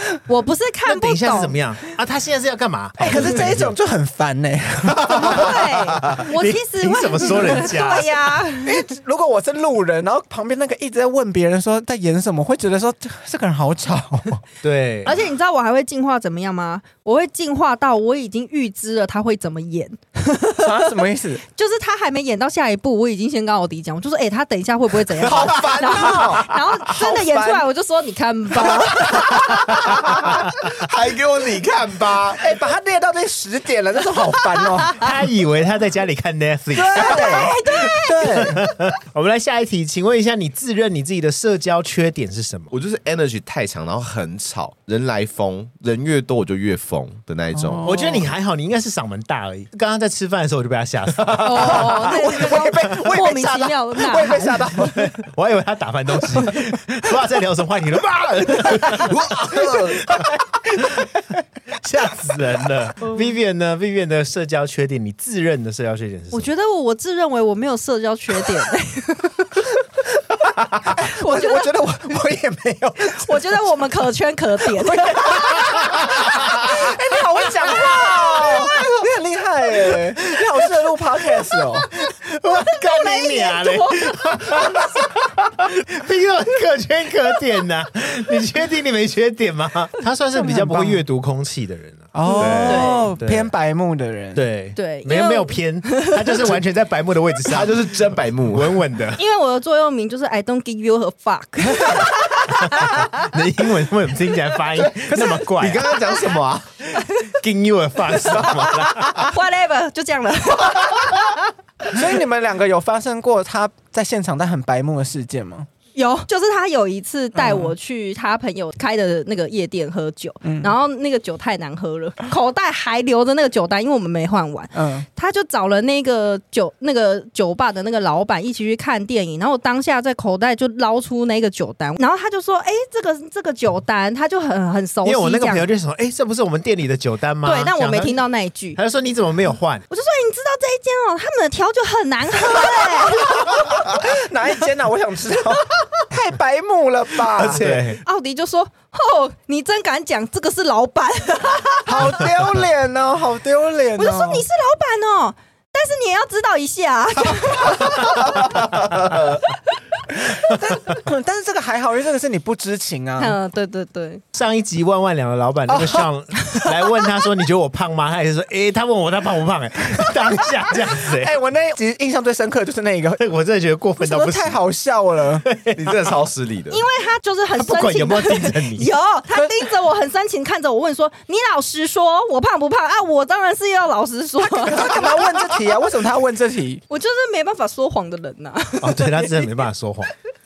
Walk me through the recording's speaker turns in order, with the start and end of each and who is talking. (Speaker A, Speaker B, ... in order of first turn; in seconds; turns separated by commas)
Speaker A: 0.3-1.6, Speaker B: 0.9-3.8, Speaker C: 3.0-5.6, Speaker D: 5.0-6.2, Speaker A: 5.2-8.8, Speaker B: 6.2-8.1, Speaker C: 8.6-14.4, Speaker B: 14.6-15.2, Speaker A: 15.1-30.0, Speaker C: 20.6-21.4, Speaker C: 25.2-27.6, Speaker D: 25.2-26.4, Speaker C: 28.6-30.1, Speaker B: 29.5-30.1, Speaker D: 29.9-32.5, Speaker C: 32.4-35.1, Speaker B: 34.9-37.3, Speaker C: 36.7-38.7, Speaker A: 36.9-38.6, Speaker B: 38.2-42.7, Speaker D: 42.7-48.0, Speaker C: 47.5-48.3, Speaker B: 47.8-52.1, Speaker A: 51.4-54.7, Speaker C: 51.6-55.1, Speaker B: 54.7-61.1, Speaker D: 58.7-60.2, Speaker B: 61.8-66.5, Speaker A: 66.3-69.6, Speaker C: 70.9-73.2, Speaker A: 70.9-71.8, Speaker A: 73.1-76.1, Speaker C: 74.7-81.9, Speaker B: 75.3-76.9, Speaker B: 77.6-78.8, Speaker A: 77.6-79.1, Speaker B: 81.9-92.1, Speaker A: 82.8-85.0, Speaker C: 90.3-91.0, Speaker C: 92.1-94.5, Speaker A: 92.2-93.1, Speaker D: 92.4-92.9, Speaker B: 92.8-93.5, Speaker B: 94.3-99.2, Speaker A: 94.8-96.5, Speaker D: 97.5-98.8, Speaker A: 99.2-103.2, Speaker B: 102.5-106.0, Speaker D: 105.0-106.8, Speaker A: 107.0-107.3, Speaker B: 107.3-109.3, Speaker A: 108.2-111.5, Speaker C: 111.9-115.7, Speaker A: 116.0-135.7, Speaker C: 117.3-117.7, Speaker C: 120.4-120.7, Speaker C: 124.8-125.1, Speaker B: 135.1-138.1, Speaker A: 137.4-138.8, Speaker B: 138.8-139.8, Speaker A: 139.9-143.8, Speaker C: 142.5-147.8, Speaker D: 147.3-147.9, Speaker B: 147.5-148.0, Speaker A: 148.1-152.3, Speaker C: 151.9-154.4, Speaker A: 154.0-158.5, Speaker D: 158.2-159.4, Speaker C: 160.3-163.4, Speaker A: 163.2-164.2, Speaker B: 164.3-171.3, Speaker C: 165.7-166.1, Speaker C: 170.8-173.2, Speaker B: 173.2-174.6, Speaker C: 174.0-175.5, Speaker B: 175.4-175.8, Speaker D: 175.8-176.8, Speaker A: 176.7-185.5, Speaker B: 177.6-178.9, Speaker C: 179.3-179.6, Speaker C: 184.6-186.8, Speaker A: 186.9-189.5, Speaker B: 188.8-190.1